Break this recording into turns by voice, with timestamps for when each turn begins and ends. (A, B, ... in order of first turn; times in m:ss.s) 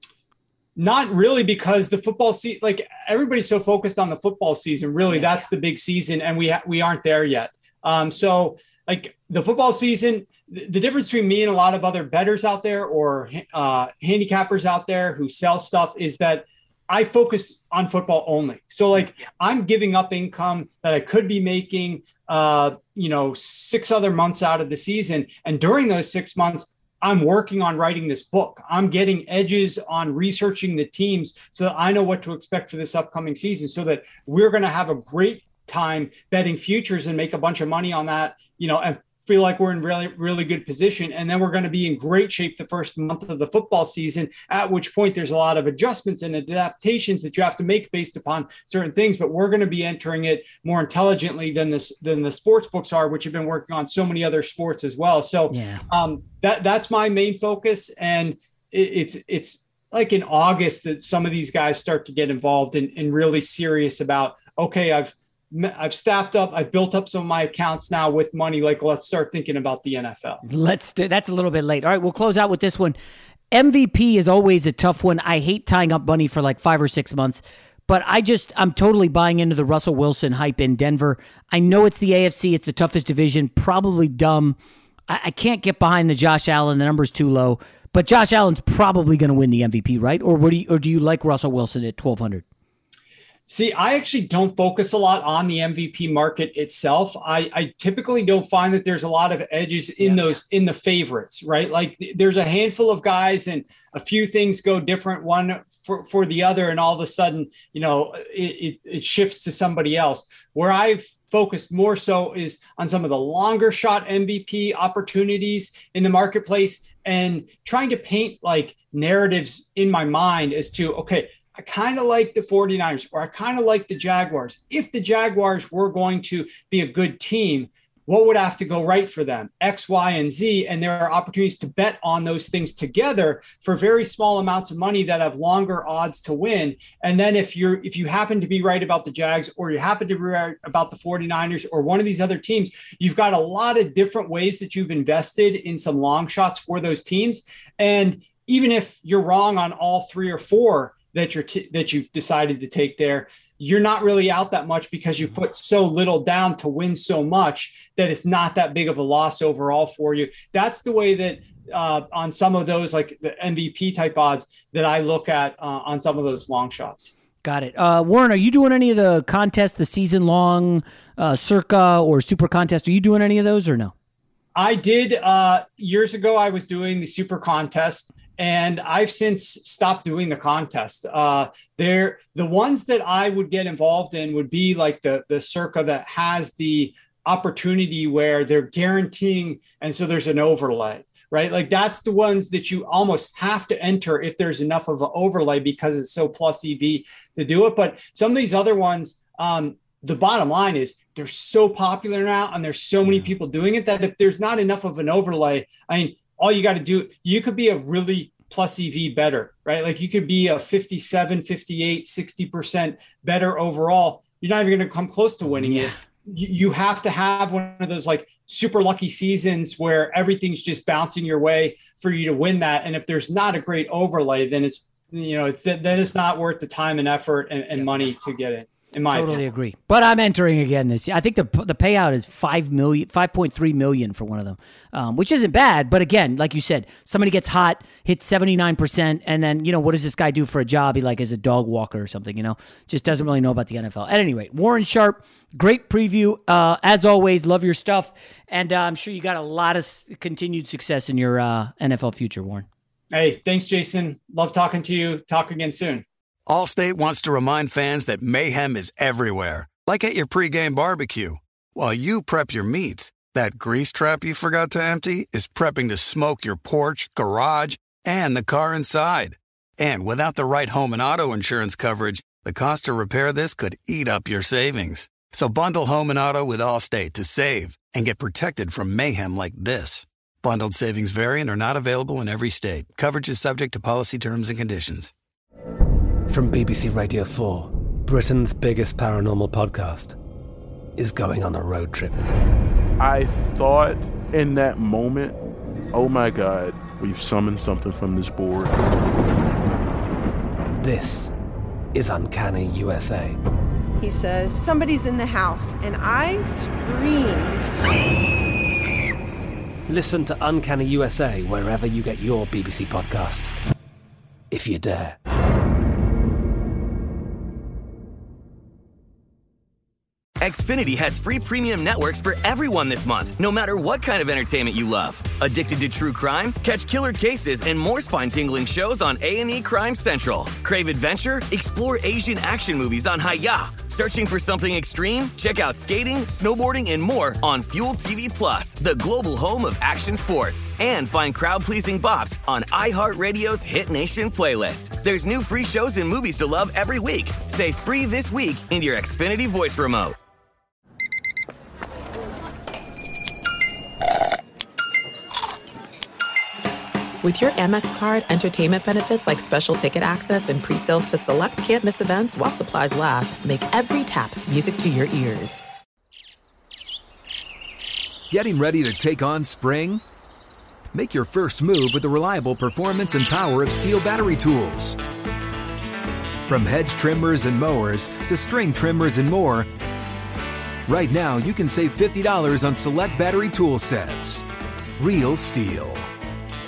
0:00.8-1:10.4 A
0:55.5-0:55.8 B
1:10.4-1:13.0 B
1:13.5-1:24.6 B
1:25.1-1:32.4 B
1:33.5-2:47.1 A
2:47.4-2:53.9 B
2:54.6-3:49.4 A
3:35.7-3:35.9 B
3:47.8-3:48.1 B
3:49.1-4:12.7 B
4:13.1-4:16.0 A
4:16.5-4:45.1 C
4:46.3-4:50.2 D
4:51.0-4:52.2 D
4:53.0-4:55.4 E
4:55.9-4:58.8 E
5:00.8-5:01.3 D
5:01.9-5:03.4 D
5:04.0-5:07.7 F
5:09.9-5:13.6 D
5:14.5-5:15.2 D
5:20.4-5:50.2 G
5:57.2-6:05.6 H
6:08.3-6:10.0 I
6:10.9-6:15.0 I
6:16.5-6:19.7 I
6:20.9-6:24.5 I
6:25.0-6:26.1 I